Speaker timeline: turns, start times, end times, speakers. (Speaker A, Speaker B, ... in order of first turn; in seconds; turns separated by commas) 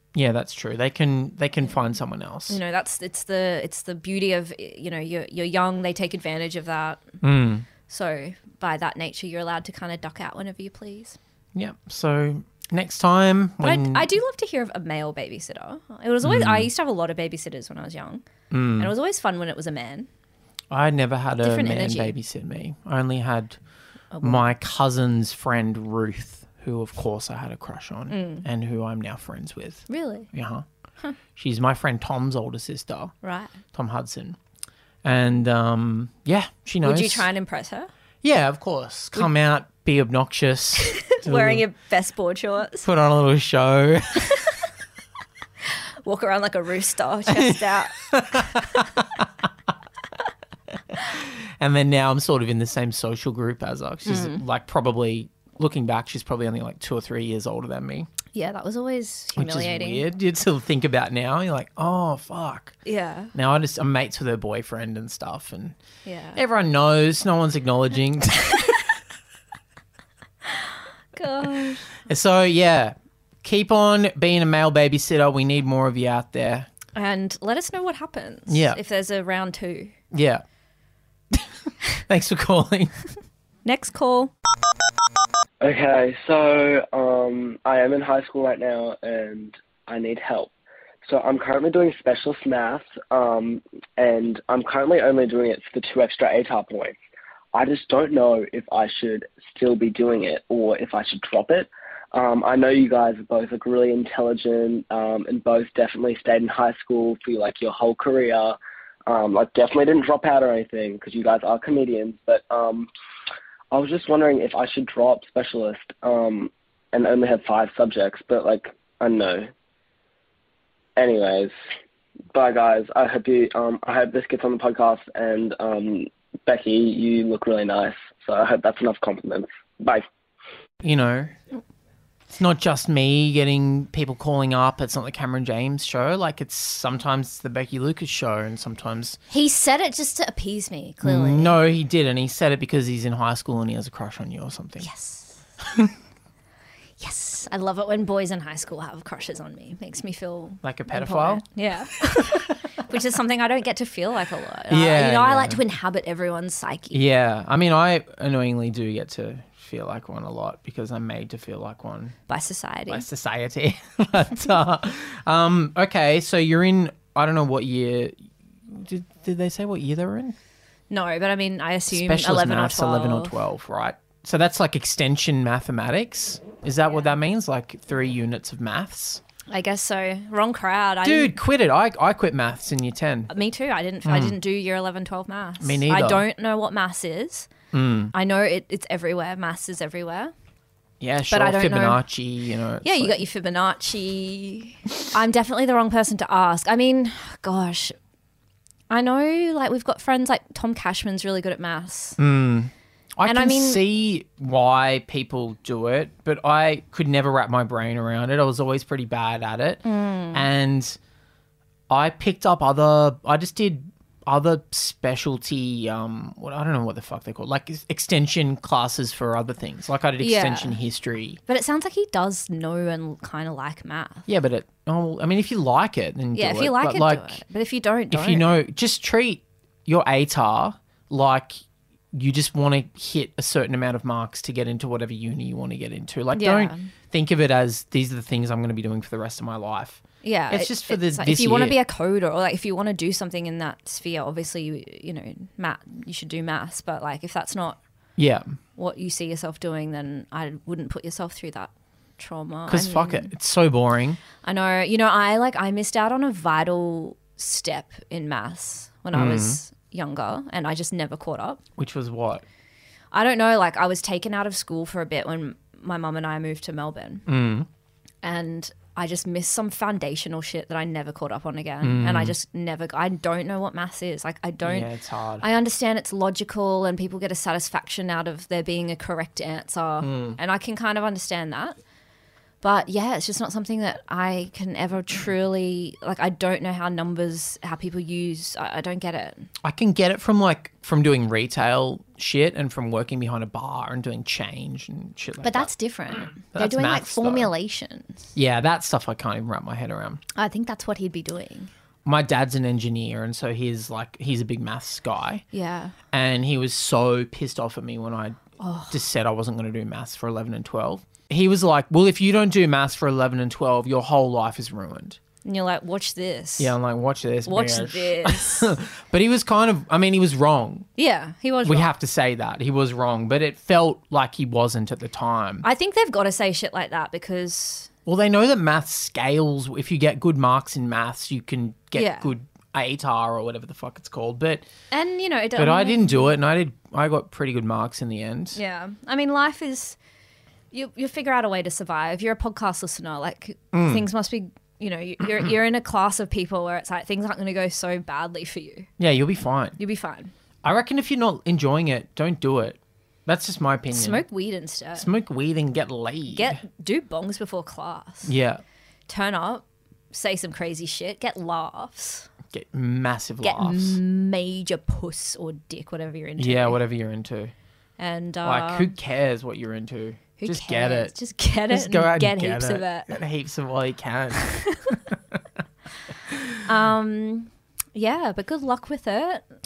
Speaker A: 0.1-2.6, Speaker B: 2.5-7.2, Speaker A: 7.2-7.7, Speaker B: 7.9-11.2, Speaker A: 11.6-14.1, Speaker B: 13.6-18.2, Speaker A: 16.2-16.7, Speaker A: 18.5-18.9, Speaker B: 18.8-20.1, Speaker A: 20.7-23.6, Speaker B: 21.4-22.1, Speaker B: 24.1-24.4, Speaker A: 24.2-30.6, Speaker B: 28.1-28.5, Speaker B: 29.9-30.3, Speaker A: 31.4-33.1, Speaker B: 33.2-33.5, Speaker A: 33.7-34.4, Speaker A: 35.0-37.3, Speaker B: 36.8-37.9, Speaker A: 38.2-41.6, Speaker B: 40.8-42.9, Speaker A: 42.8-44.3, Speaker B: 44.3-44.6, Speaker B: 46.0-48.8, Speaker A: 47.3-49.2, Speaker A: 50.9-58.1, Speaker B: 54.1-54.4, Speaker B: 58.3-60.0, Speaker A: 59.4-62.8, Speaker B: 62.9-63.3, Speaker A: 63.3-65.8, Speaker B: 66.0-66.4, Speaker A: 66.4-68.8, Speaker B: 70.5-71.9, Speaker A: 72.0-76.7, Speaker B: 76.9-80.0, Speaker A: 78.5-78.8, Speaker A: 80.1-80.4, Speaker A: 82.1-82.9, Speaker B: 83.7-84.3, Speaker C: 85.6-90.5, Speaker C: 91.0-97.0, Speaker C: 97.5-112.9, Speaker C: 113.7-119.5, Speaker C: 121.0-121.5, Speaker C: 122.3-130.1, Speaker A: 130.8-131.3, Speaker A: 132.4-139.2, Speaker B: 139.3-141.6, Speaker A: 141.0-144.9, Speaker B: 144.8-145.4, Speaker A: 145.6-145.9, Speaker B: 147.0-157.0, Speaker A: 150.6-151.4, Speaker A: 152.1-152.5, Speaker A: 154.7-155.6, Speaker A: 156.9-162.2, Speaker B: 162.3-163.1, Speaker A: 162.9-170.3, Speaker B: 170.9-173.3, Speaker A: 171.9-179.2, Speaker B: 179.5-181.4, Speaker A: 181.0-183.3, Speaker B: 183.3-187.5, Speaker A: 184.1-184.4, Speaker A: 185.6-186.2, Speaker A: 187.7-188.1, Speaker B: 188.1-190.3, Speaker A: 191.0-193.2, Speaker B: 191.3-192.0, Speaker B: 192.8-198.0, Speaker B: 198.9-202.2, Speaker A: 202.2-211.0, Speaker B: 203.3-203.8, Speaker B: 209.8-210.5, Speaker A: 211.9-221.4, Speaker B: 220.2-220.8, Speaker B: 221.5-224.3, Speaker A: 224.3-227.4, Speaker B: 226.3-228.5, Speaker A: 228.1-231.6, Speaker A: 232.1-241.8, Speaker B: 236.3-236.9, Speaker B: 240.2-247.8, Speaker A: 248.2-248.6, Speaker B: 248.8-253.3, Speaker A: 252.7-254.2, Speaker B: 254.4-261.6, Speaker A: 259.1-259.6, Speaker A: 261.8-262.4, Speaker B: 263.1-267.2, Speaker A: 267.3-267.7, Speaker B: 268.2-281.8, Speaker A: 271.8-272.4, Speaker A: 274.6-275.4, Speaker A: 280.0-280.4, Speaker B: 282.6-289.5, Speaker A: 289.6-295.7, Speaker B: 295.4-298.3, Speaker A: 296.5-297.5, Speaker A: 298.4-300.2, Speaker B: 300.4-301.7, Speaker A: 302.1-305.4, Speaker B: 305.5-305.9, Speaker A: 306.1-315.2, Speaker B: 308.6-308.9, Speaker B: 315.4-316.8, Speaker A: 316.6-320.9, Speaker B: 317.5-318.7, Speaker B: 321.0-321.9, Speaker A: 321.6-325.6, Speaker B: 325.6-327.9, Speaker A: 328.1-334.7, Speaker B: 331.9-332.3, Speaker B: 334.9-336.3, Speaker A: 335.6-338.6, Speaker B: 338.6-340.0, Speaker B: 340.7-348.9, Speaker A: 343.7-344.0, Speaker A: 349.0-349.8, Speaker B: 349.8-350.3, Speaker A: 350.6-354.2, Speaker B: 353.9-355.1, Speaker A: 355.0-356.6, Speaker B: 356.3-358.3, Speaker A: 358.2-358.6, Speaker B: 359.1-362.3, Speaker A: 362.5-364.0, Speaker B: 363.4-366.8, Speaker A: 366.4-367.5, Speaker B: 368.0-368.9, Speaker A: 368.4-371.1, Speaker B: 370.4-373.1, Speaker A: 371.7-374.5, Speaker B: 374.5-375.0, Speaker A: 376.3-376.6, Speaker B: 376.6-379.4